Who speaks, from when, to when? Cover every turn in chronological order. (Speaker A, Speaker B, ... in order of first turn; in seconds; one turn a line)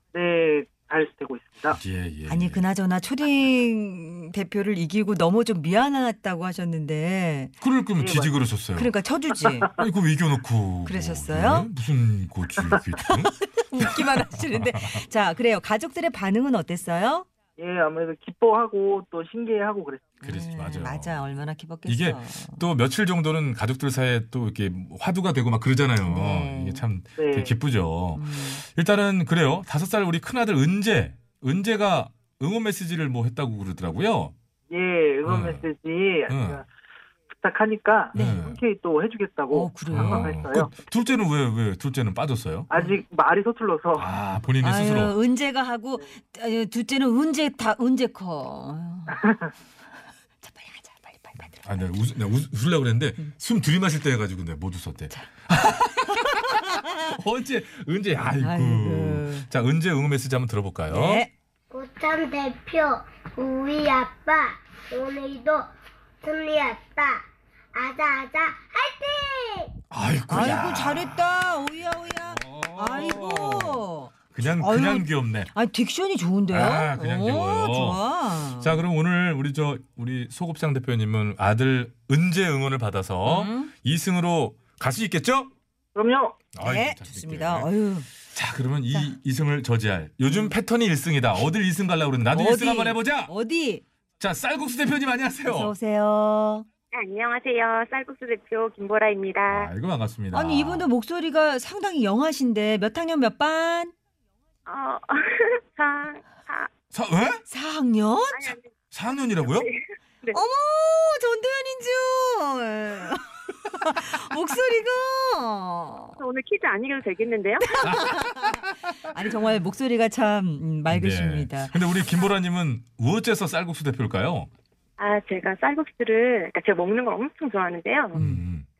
Speaker A: 0.1-1.8
Speaker B: 1.7-2.6
Speaker C: 2.3-7.5
Speaker B: 7.6-8.9
Speaker A: 8.0-8.3
Speaker C: 8.8-9.7
Speaker B: 9.8-15.0
Speaker C: 10.8-11.7
Speaker C: 13.0-17.2
Speaker A: 17.6-20.1
Speaker C: 20.2-22.6
Speaker B: 20.2-21.2
Speaker B: 21.9-34.3
Speaker C: 26.1-26.8
Speaker A: 27.2-27.6
Speaker C: 28.1-28.6
Speaker A: 34.7-36.6
Speaker B: 35.2-35.6
Speaker B: 36.3-36.6
Speaker A: 37.3-40.7
Speaker C: 38.1-38.6
Speaker B: 38.1-38.6
Speaker C: 39.5-40.4
Speaker B: 39.9-42.7
Speaker A: 42.7-44.1
Speaker C: 42.7-43.0
Speaker B: 43.9-45.1
Speaker C: 44.6-49.2
Speaker C: 50.4-51.9
Speaker B: 51.6-61.2
Speaker C: 56.3-57.1
Speaker C: 58.4-59.5
Speaker C: 60.9-61.3
Speaker D: 61.7-65.7
Speaker D: 66.2-69.7
Speaker B: 69.9-71.3
Speaker C: 70.3-78.8
Speaker B: 72.3-75.5
Speaker B: 76.5-78.0
Speaker B: 78.6-85.5
Speaker C: 83.2-83.7
Speaker A: 85.9-86.4
Speaker B: 86.5-87.7
Speaker C: 86.6-88.1
Speaker B: 88.2-93.3
Speaker C: 90.3-90.5
Speaker C: 92.3-93.8
Speaker B: 94.2-95.7
Speaker C: 95.5-96.6
Speaker E: 96.9-99.7
Speaker B: 99.5-100.9
Speaker C: 100.3-103.9
Speaker E: 104.7-106.7
Speaker B: 106.9-107.4
Speaker C: 107.5-108.5
Speaker E: 108.3-108.6
Speaker B: 108.9-109.7
Speaker E: 109.4-110.4
Speaker C: 110.3-116.2
Speaker E: 116.2-117.8
Speaker C: 117.6-121.7
Speaker B: 117.9-118.6
Speaker B: 120.9-124.5
Speaker E: 125.0-128.4
Speaker B: 128.2-128.7